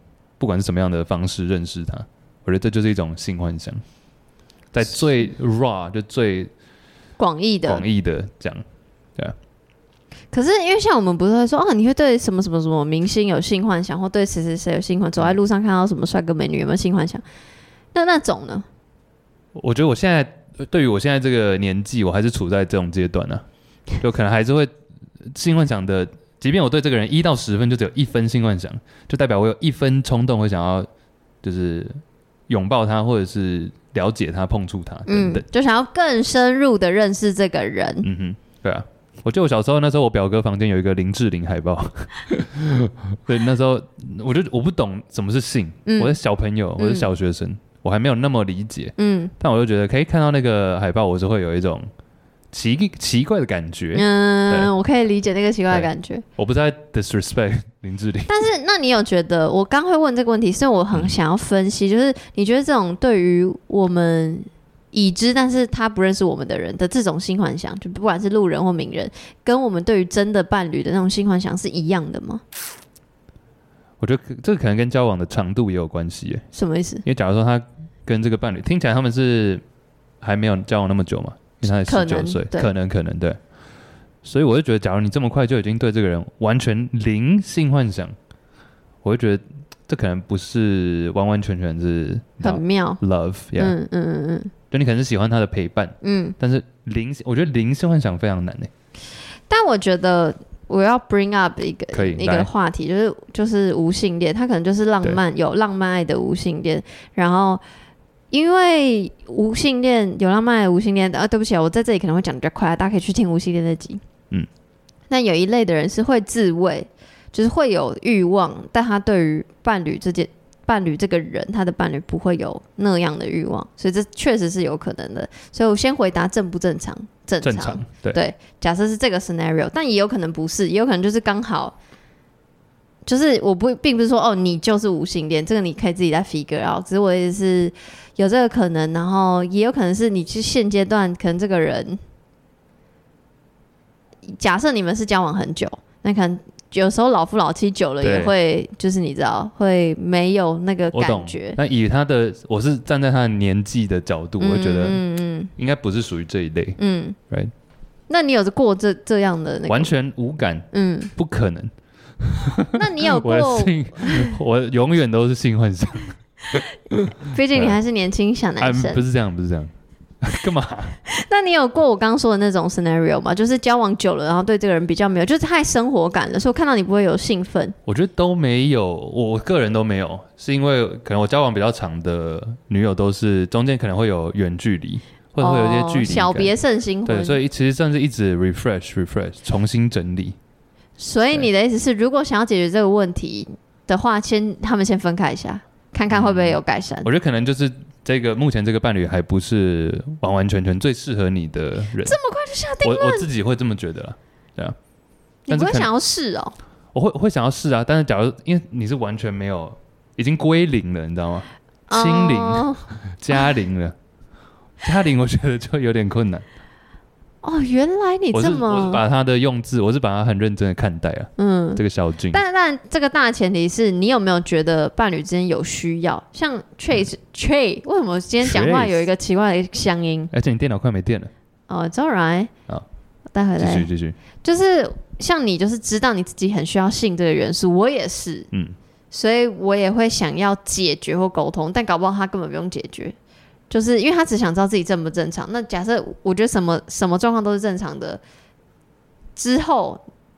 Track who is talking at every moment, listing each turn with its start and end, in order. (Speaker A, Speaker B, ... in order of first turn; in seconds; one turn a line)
Speaker A: 0.4-3.8
Speaker A: 4.7-6.5
Speaker B: 7.2-7.8
Speaker A: 7.7-8.6
Speaker B: 10.3-17.2
Speaker B: 17.9-18.6
Speaker A: 19.5-23.4
Speaker A: 24.0-24.7
Speaker A: 25.3-30.9
Speaker A: 31.4-35.4
Speaker B: 35.1-38.1
Speaker A: 38.0-51.9
Speaker B: 45.9-46.2
Speaker B: 46.8-47.1
Speaker B: 49.0-49.3
Speaker A: 52.5-54.7
Speaker B: 53.9-56.2
Speaker A: 55.7-58.3
Speaker B: 58.3-72.4
Speaker A: 74.0-76.4
Speaker B: 76.5-77.0
Speaker A: 77.0-79.6
Speaker A: 80.2-83.4
Speaker B: 81.7-82.7
Speaker A: 84.2-88.1
Speaker A: 89.0-93.8
Speaker B: 92.4-93.0
Speaker B: 93.5-94.5
Speaker A: 94.7-98.7
Speaker B: 96.0-96.3
Speaker B: 99.5-107.6
Speaker A: 101.9-102.5
Speaker B: 108.3-114.0
Speaker B: 115.1-131.8
Speaker A: 127.4-128.2
Speaker B: 133.1-142.0
Speaker B: 144.2-151.6
Speaker A: 148.0-148.3
Speaker A: 150.9-155.0
Speaker B: 154.4-155.5
Speaker A: 155.6-156.8
Speaker B: 156.8-157.2
Speaker B: 158.1-159.9
Speaker A: 159.7-167.8
Speaker B: 160.7-161.1
Speaker B: 162.7-164.3
Speaker B: 167.2-169.0
Speaker A: 168.6-171.0
Speaker B: 171.1-177.7
Speaker A: 177.8-186.5
Speaker B: 185.4-187.4
Speaker A: 187.0-190.3
Speaker B: 191.0-197.1
Speaker A: 196.1-202.2
Speaker B: 202.0-203.3
Speaker A: 202.8-204.8
Speaker B: 205.5-206.6
Speaker A: 205.5-205.9
Speaker A: 206.9-213.9
Speaker B: 211.9-212.9
Speaker A: 214.8-216.4
Speaker B: 217.4-219.0
Speaker A: 218.3-222.4
Speaker B: 221.4-230.3
Speaker A: 228.4-229.0
Speaker A: 230.3-231.3
Speaker B: 231.7-232.5
Speaker B: 233.3-233.9
Speaker A: 233.6-234.2
Speaker B: 234.4-238.5
Speaker B: 239.1-243.1
Speaker B: 243.7-248.2
Speaker B: 249.3-250.0